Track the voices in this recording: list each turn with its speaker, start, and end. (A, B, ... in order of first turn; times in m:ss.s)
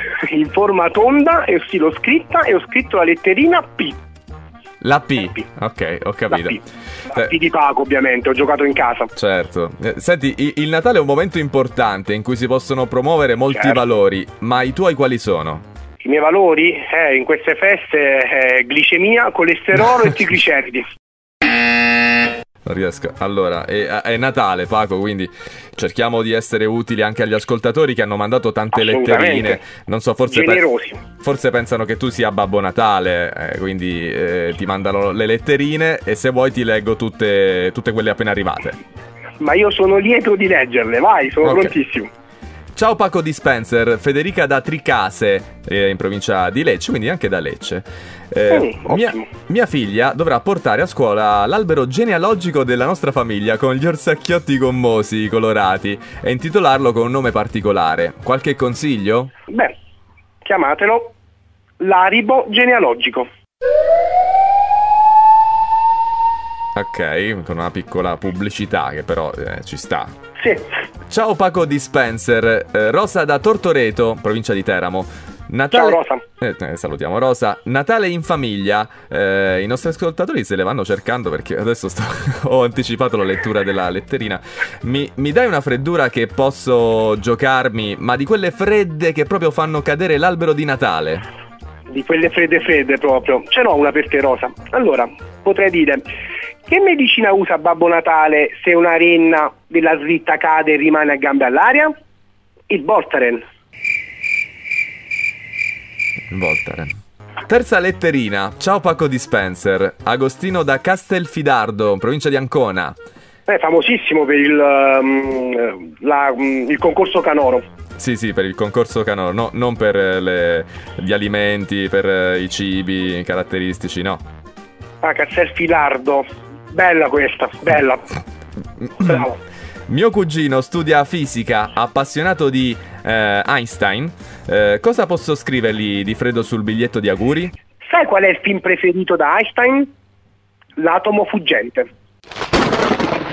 0:00.2-0:04.0 A
0:04.8-0:06.6 B
0:06.3-0:06.6 A
0:07.1-0:09.1 A
0:09.2-0:15.6 B
0:13.5-0:13.8 A
0:16.0-0:20.8 A
0:22.7-0:30.6 B
0:28.7-0:29.6 A
0:30.3-0:31.0 A
0:31.2-0:38.8 B
0:39.4-0:42.1 A
0:41.4-0:41.7 B
0:42.8-0:59.3 B
0:48.5-0:49.3 A
0:59.5-0:59.8 A
1:00.4-1:01.1 A
1:01.8-1:03.3 A
1:06.8-1:10.2 B
1:10.4-1:10.7 A
1:11.1-1:31.2 B
1:15.7-1:16.2 A
1:31.9-1:36.0 A
1:36.7-1:41.9 A
1:42.7-1:43.4 A
1:46.3-1:46.9 B
1:47.5-1:53.0 B
1:53.5-1:57.6 A
1:58.0-2:04.2 B
2:05.0-2:08.1 A
2:08.8-2:09.3 B
2:09.0-2:09.4 A
2:09.9-2:17.5 B
2:17.9-2:19.9 A
2:20.8-2:21.9 A